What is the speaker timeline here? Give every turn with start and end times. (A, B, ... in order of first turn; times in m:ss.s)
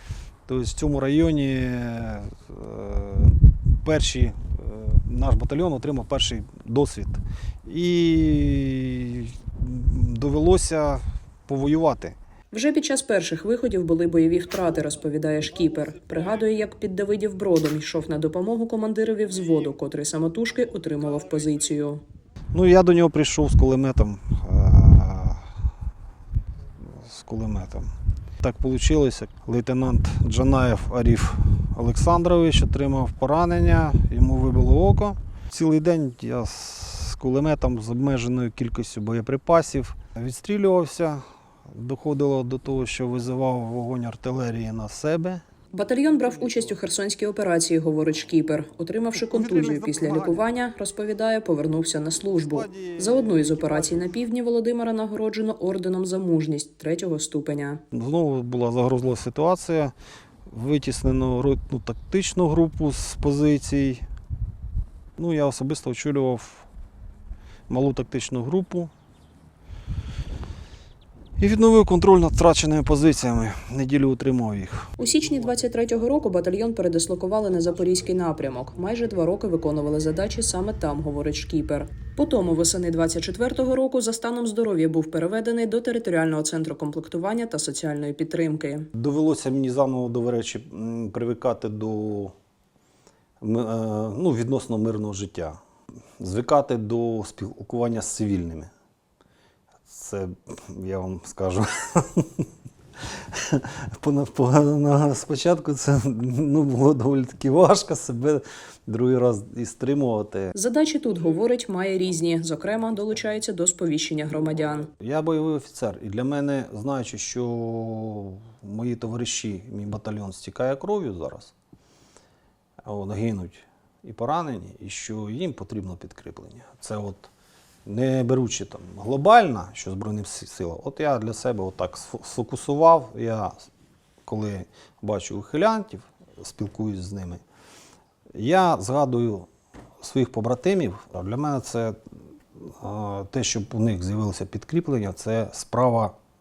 0:00.5-0:12.2 A
0:12.5-0:22.0 B
0:22.5-0:25.4 A
0:26.9-0:27.9 A
0:28.4-0:45.4 A
0:45.7-0:57.8 B
0:46.1-0:46.8 A
0:49.1-0:50.4 A
0:52.4-0:54.1 A
0:57.9-0:59.9 A
1:00.5-1:04.0 A
1:05.2-1:06.7 A
1:07.7-1:08.9 A
1:11.4-1:14.9 A
1:15.0-1:28.9 B
1:29.0-1:32.3 A
1:33.4-1:35.6 A
1:36.2-1:38.7 A
1:39.9-1:42.5 A
1:43.1-1:50.6 A
1:50.6-1:54.9 B
1:54.9-2:01.5 A
2:02.8-2:07.3 A
2:07.8-2:13.5 A
2:14.2-2:17.4 A
2:18.4-2:19.5 A
2:20.0-2:22.0 A
2:22.6-2:26.1 A